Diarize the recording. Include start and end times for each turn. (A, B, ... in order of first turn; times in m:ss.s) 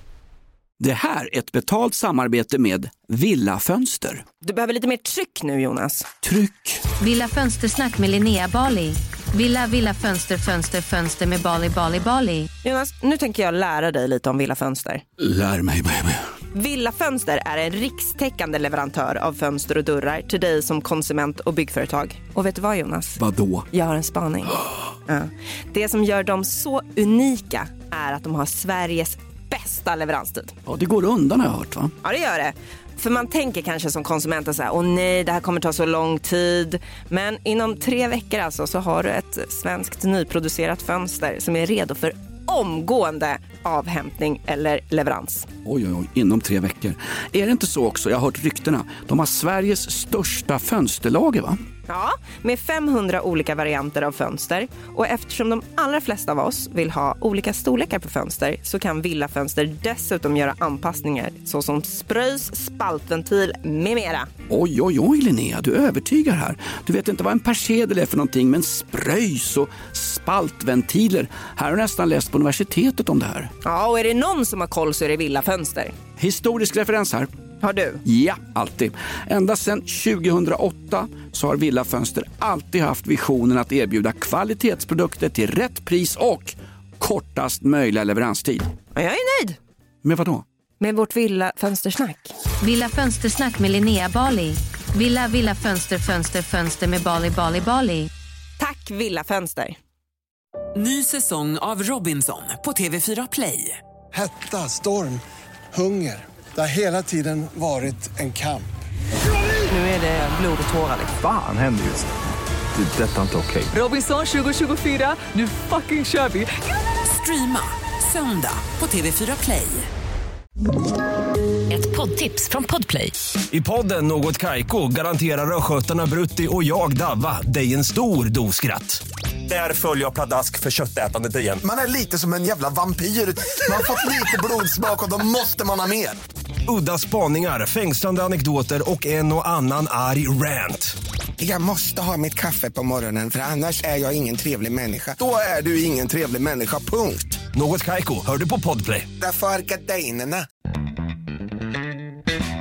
0:00.8-0:04.2 A
0:04.4-0:06.1 B
0:06.2-0:06.8 A
0:07.0-0:12.5 C
0:12.6-0:15.0 B
0:15.2-0:16.2 A
0:16.5-0:30.6 B
0:23.2-0:23.7 A
0:30.7-0:31.9 A
0:32.0-0:45.5 B
0:45.6-0:51.6 A
0:51.9-1:04.3 B
1:04.5-1:13.5 A
1:13.6-1:16.0 B
1:16.2-1:17.3 A
1:17.6-1:18.0 B
1:18.0-1:28.7 A
1:29.0-1:29.6 B
1:30.0-1:30.4 A
1:30.8-1:32.3 B
1:32.6-1:38.1 C
1:38.6-1:39.8 B
1:40.8-1:43.8 D
1:44.1-1:45.2 E
1:45.7-1:48.7 E
1:49.7-1:51.1 B
1:51.2-1:52.1 F
1:52.7-1:53.7 F
1:53.7-1:56.5 D
1:57.0-1:59.9 D
2:01.7-2:03.2 D
2:03.5-2:11.6 G
2:11.6-2:16.2 H
2:16.7-2:21.0 G
2:21.4-2:27.4 H
2:27.4-2:29.1 G
2:29.2-2:30.5 H